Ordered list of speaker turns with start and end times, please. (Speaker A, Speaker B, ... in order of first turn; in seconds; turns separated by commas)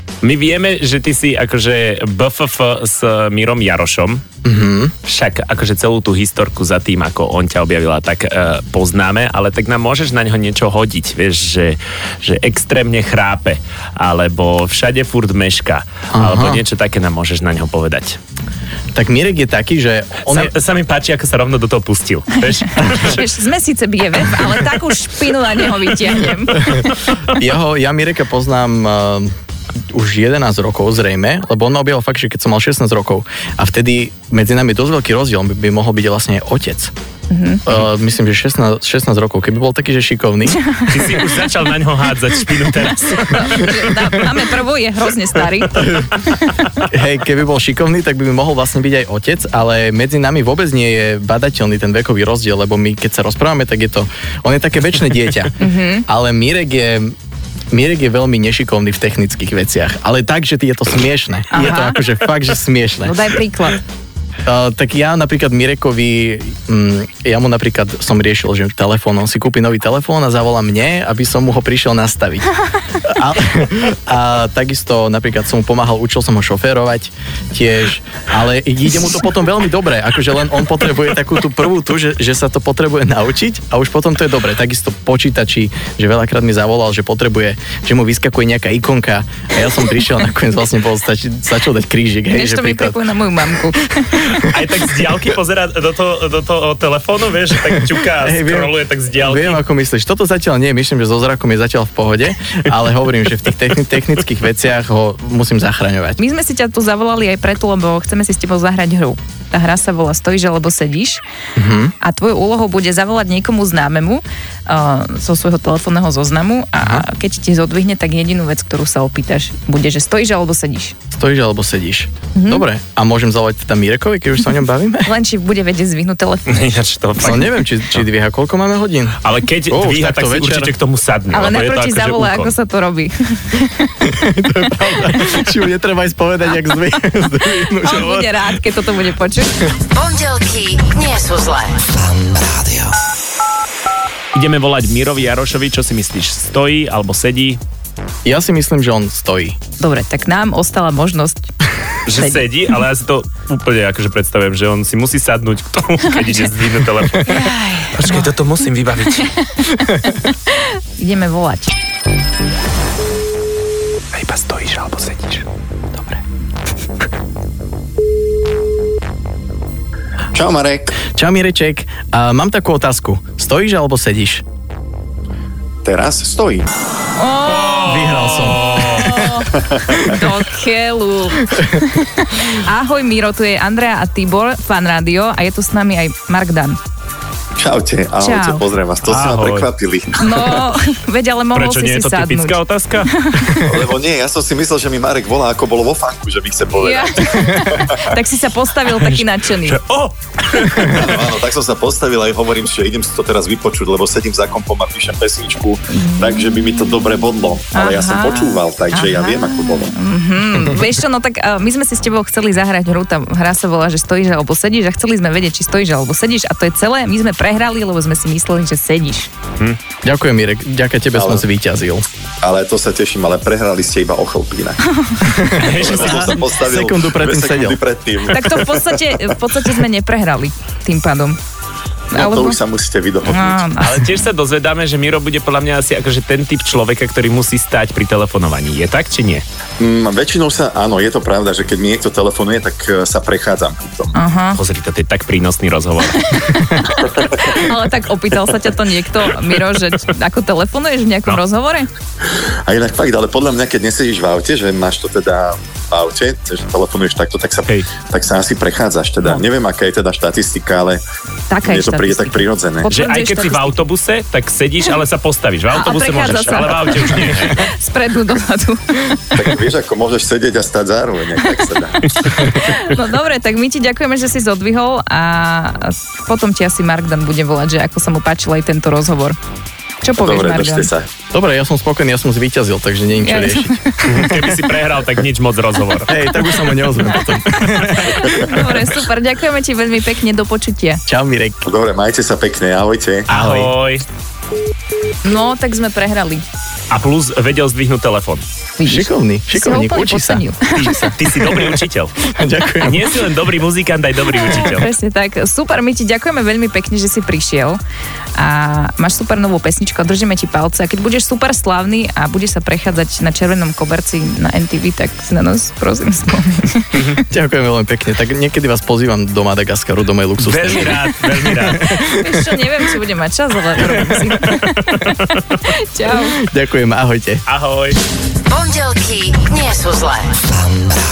Speaker A: 0.2-4.2, Speaker B: 4.4-4.9, Speaker A: 5.0-18.2, Speaker B: 16.1-16.6, Speaker B: 18.9-20.5, Speaker A: 20.2-23.2, Speaker C: 22.8-26.8, Speaker B: 26.6-29.3, Speaker B: 29.9-36.9, Speaker C: 37.3-37.6, Speaker B: 37.6-40.6, Speaker A: 40.9-44.1, Speaker C: 43.2-46.3, Speaker B: 46.8-57.1, Speaker C: 55.6-56.0, Speaker B: 57.7-63.2, Speaker C: 61.5-62.0, Speaker C: 63.0-63.8, Speaker B: 64.5-93.0, Speaker C: 92.2-94.3, Speaker A: 94.2-99.6, Speaker B: 98.2-106.2, Speaker C: 106.2-111.2, Speaker B: 111.5-111.9, Speaker C: 112.0-120.9, Speaker B: 116.8-117.0, Speaker B: 121.1-125.1, Speaker C: 122.3-122.7, Speaker C: 125.0-126.8, Speaker A: 126.5-128.0, Speaker B: 127.2-129.2, Speaker A: 129.2-132.5, Speaker B: 129.7-130.7, Speaker C: 131.3-133.9, Speaker B: 134.0-138.6, Speaker C: 137.6-139.5, Speaker D: 139.8-142.0, Speaker A: 144.3-147.6, Speaker B: 148.2-149.6, Speaker C: 149.8-151.5, Speaker A: 152.0-159.3, Speaker C: 152.1-152.4, Speaker C: 157.2-158.3, Speaker C: 159.2-161.7, Speaker A: 164.1-165.4, Speaker E: 170.3-171.0, Speaker B: 171.1-174.4, Speaker E: 175.8-176.7, Speaker C: 177.1-186.8, Speaker A: 177.5-179.2, Speaker B: 177.8-180.2, Speaker E: 179.6-180.0, Speaker E: 187.6-190.3, Speaker C: 188.2-188.6, Speaker A: 189.0-189.7, Speaker C: 190.2-193.6, Speaker A: 191.5-193.1, Speaker E: 193.6-198.1, Speaker C: 196.8-199.8, Speaker A: 199.0-201.3, Speaker E: 200.8-209.9, Speaker C: 205.9-206.9, Speaker C: 207.7-219.3, Speaker B: 220.0-222.1, Speaker E: 221.1-221.4, Speaker E: 222.4-224.9, Speaker B: 225.2-227.8, Speaker A: 225.5-226.5, Speaker E: 225.7-229.4, Speaker C: 228.2-231.4, Speaker C: 232.1-232.6, Speaker E: 232.1-233.6, Speaker C: 233.2-234.1, Speaker A: 233.8-239.4, Speaker E: 239.8-244.2, Speaker C: 244.1-244.6, Speaker A: 244.5-246.3, Speaker C: 246.2-251.9, Speaker E: 252.7-261.0, Speaker C: 261.5-263.8, Speaker E: 261.6-262.9, Speaker A: 262.9-267.7, Speaker C: 265.7-269.2, Speaker E: 269.3-272.1, Speaker C: 272.3-279.4, Speaker C: 280.0-280.9, Speaker E: 280.2-281.1, Speaker B: 281.3-284.5, Speaker C: 283.1-284.1, Speaker A: 284.0-286.2, Speaker B: 286.1-288.6, Speaker C: 287.1-291.0, Speaker B: 291.1-291.7, Speaker E: 291.6-293.3, Speaker A: 293.3-294.0, Speaker B: 293.3-293.7, Speaker C: 295.2-296.4, Speaker A: 296.9-298.4, Speaker C: 298.8-301.1, Speaker B: 298.8-303.1, Speaker A: 300.7-302.1, Speaker A: 302.8-304.9, Speaker C: 304.3-307.8, Speaker C: 308.4-317.2, Speaker A: 316.9-317.2, Speaker B: 317.3-322.6, Speaker A: 320.4-321.9, Speaker C: 321.8-326.4, Speaker A: 324.4-325.1, Speaker B: 326.1-327.4, Speaker A: 327.4-328.0, Speaker D: 328.5-330.5